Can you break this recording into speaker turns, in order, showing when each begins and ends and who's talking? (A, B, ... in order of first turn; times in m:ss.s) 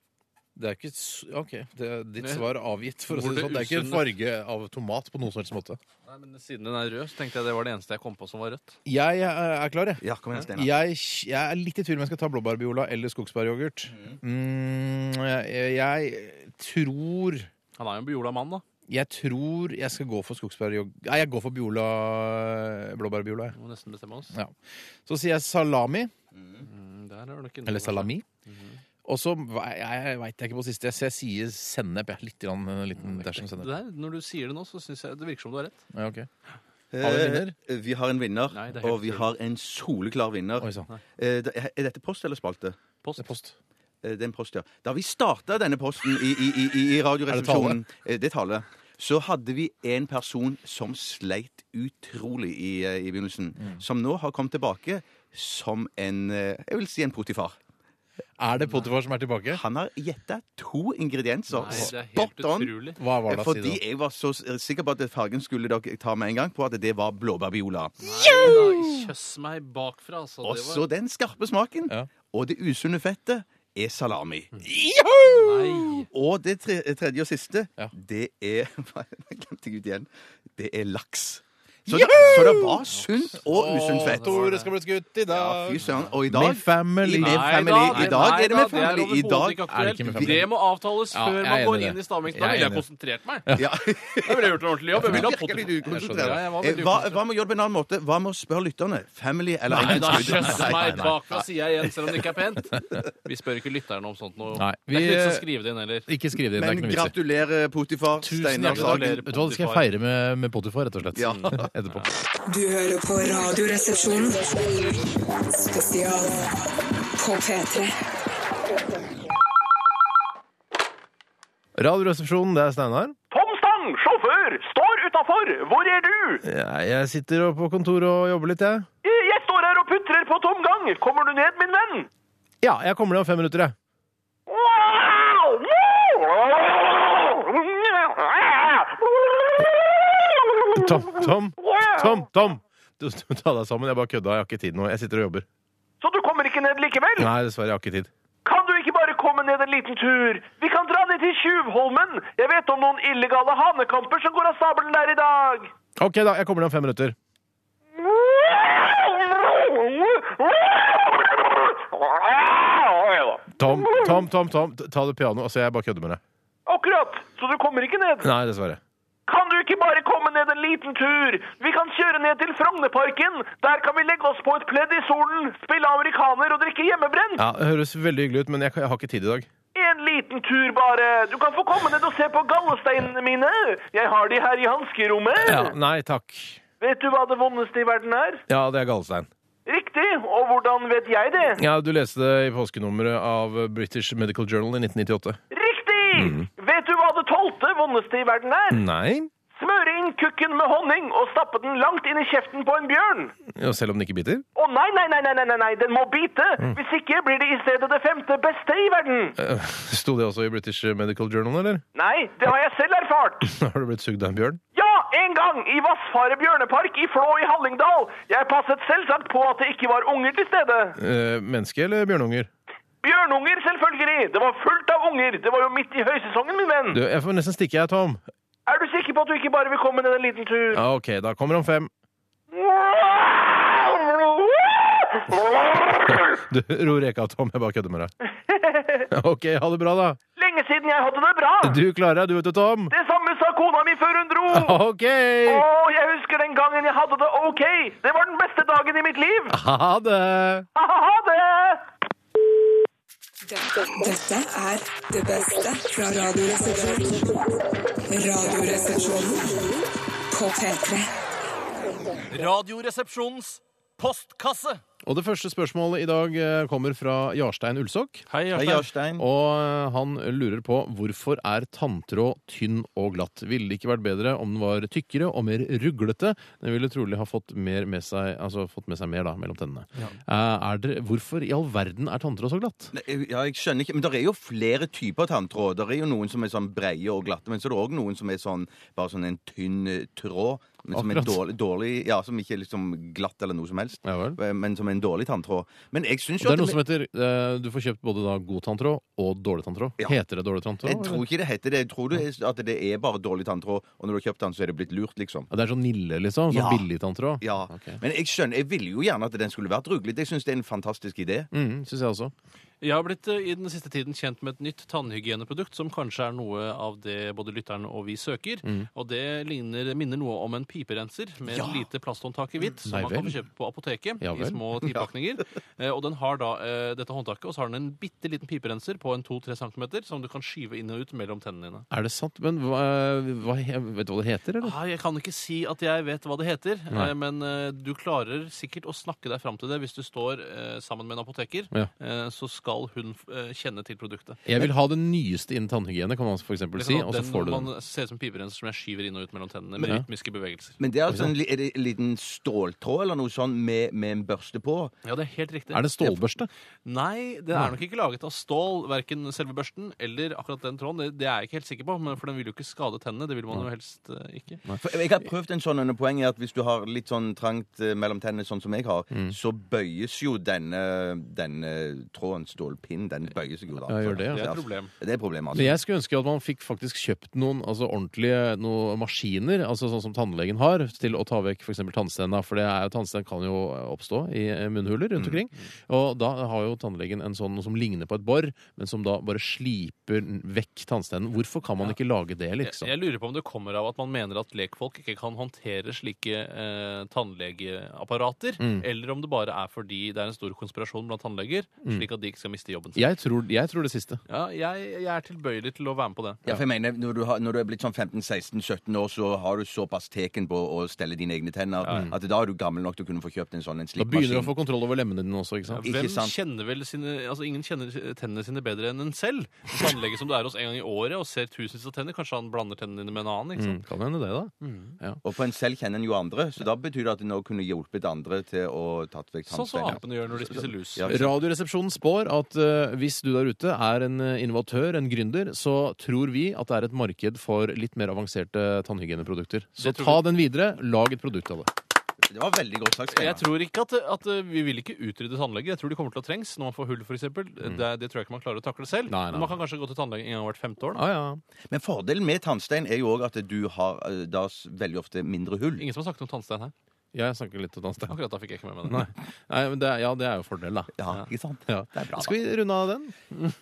0:00.6-0:05.8 A
0:02.2-0:02.5 B
0:03.1-0:04.1 B
0:06.0-0:08.8 B
0:08.8-0:17.5 A
0:10.0-0:10.7 C
0:17.8-0:18.6 B
0:18.9-0:23.5 A
0:23.5-0:24.3 B
0:24.3-0:26.1 A
0:26.6-0:28.8 B
0:27.6-0:28.2 A
0:29.0-0:33.7 A
0:33.0-0:35.8 B
0:35.9-0:36.3 A
0:36.9-0:42.8 C
0:37.0-0:37.5 A
0:38.5-0:39.3 B
0:40.6-0:40.9 A
0:43.0-0:43.3 B
0:43.2-0:43.6 A
0:44.0-0:57.6 C
0:47.3-0:47.8 A
0:58.4-0:59.6 A
0:59.5-1:02.7 C
1:01.5-1:03.0 B
1:01.6-1:01.9 A
1:03.0-1:03.8 A
1:03.2-1:08.6 C
1:08.0-1:10.8 B
1:08.2-1:09.0 A
1:10.4-1:14.6 C
1:14.6-1:16.0 A
1:15.2-1:16.1 B
1:16.1-1:24.5 C
1:21.9-1:22.8 A
1:22.9-1:24.7 B
1:23.4-1:28.4 A
1:25.3-1:30.4 C
1:25.8-1:26.1 B
1:27.2-1:33.5 B
1:29.7-1:30.5 A
1:31.1-1:32.8 A
1:33.4-1:33.7 A
1:33.6-1:41.4 C
1:34.2-1:37.2 B
1:35.0-1:36.4 A
1:39.7-1:41.2 A
1:39.7-1:46.1 B
1:44.5-1:45.4 A
1:46.1-1:47.1 A
1:46.6-1:49.2 C
1:48.2-1:52.3 A
1:48.6-1:49.8 B
1:51.1-1:51.7 C
1:51.2-1:52.1 B
1:52.4-1:55.0 D
1:55.5-1:56.5 D
1:57.1-1:57.9 D
2:01.8-2:03.1 A
2:03.3-2:06.4 E
2:06.4-2:08.9 A
2:09.0-2:12.1 E
2:12.6-2:13.7 A
2:14.5-2:22.2 E
2:20.7-2:25.4 A
2:26.0-2:27.3 E
2:27.2-2:28.1 A
2:28.4-2:35.7 E
2:36.0-2:37.2 A
2:37.9-2:44.2 E
2:43.6-2:46.2 A
2:46.6-2:48.3 E
2:48.2-2:48.8 A
2:49.3-2:57.4 E
2:57.4-2:59.5 A
2:59.7-3:05.7 E
3:05.4-3:06.6 A
3:06.8-3:08.4 E
3:08.5-3:09.3 A
3:09.6-3:11.6 E
3:11.5-3:15.4 A
3:15.5-3:18.8 E
3:16.1-3:16.5 A
3:18.7-3:19.3 A
3:19.5-3:23.3 E
3:23.5-3:24.4 A
3:24.6-3:29.3 E
3:29.4-3:31.8 A
3:31.9-3:33.5 E
3:33.4-3:34.6 A
3:34.7-3:41.0 E
3:41.0-3:42.5 A
3:43.0-3:47.0 E
3:46.9-3:48.2 A
3:48.7-3:50.8 E
3:50.7-3:51.9 A
3:52.5-3:56.4 E
3:56.1-3:58.1 A
3:58.5-3:59.1 E
3:59.1-4:00.2 A
4:00.4-4:01.8 E
4:01.6-4:02.9 A
4:02.9-4:04.8 E
4:04.5-4:05.6 A
4:05.5-4:09.6 E
4:09.5-4:10.7 A
4:10.7-4:11.8 E
4:13.5-4:17.3 D
4:18.1-4:19.8 D
4:20.3-4:21.1 D
4:22.3-4:24.8 B
4:25.0-4:28.2 A
4:28.3-4:28.9 B
4:28.5-4:29.2 C
4:29.2-4:42.9 A
4:42.9-4:56.8 C
4:50.9-4:51.4 A
4:54.0-4:54.4 A
4:56.4-5:01.2 A
5:00.8-5:05.5 C
5:05.5-5:08.0 A
5:06.5-5:06.9 C
5:07.4-5:11.5 C
5:11.5-5:12.3 A
5:12.8-5:31.9 B
5:21.5-5:21.8 C
5:22.8-5:23.4 A
5:24.2-5:24.6 A
5:31.9-5:34.8 A
5:34.6-5:44.4 B
5:44.4-5:47.7 A
5:46.8-5:50.8 B
5:50.8-5:54.9 C
5:55.0-5:56.2 B
5:55.7-5:56.5 A
5:56.8-6:04.6 B
6:04.8-6:15.8 C
6:13.9-6:14.5 A
6:14.3-6:14.9 B
6:15.5-6:32.9 A
6:25.2-6:25.4 C
6:32.6-6:43.0 B
6:38.6-6:38.8 A
6:42.9-6:44.2 A
6:44.3-6:46.4 B
6:46.4-6:54.5 C
6:51.8-6:52.1 B
6:51.8-6:52.1 A
6:54.0-6:55.8 A
6:55.7-7:03.8 B
6:55.8-6:56.4 C
7:03.6-7:05.2 A
7:04.6-7:05.0 B
7:05.2-7:11.3 C
7:09.5-7:11.2 B
7:11.1-7:21.7 A
7:19.8-7:20.2 B
7:22.3-7:23.4 C
7:23.1-7:31.0 B
7:29.1-7:29.6 A
7:30.9-7:31.4 A
7:31.7-7:35.8 C
7:35.8-7:36.7 B
7:37.1-7:38.2 A
7:38.1-7:39.1 B
7:38.8-7:40.9 A
7:41.0-7:42.4 C
7:41.7-7:43.2 A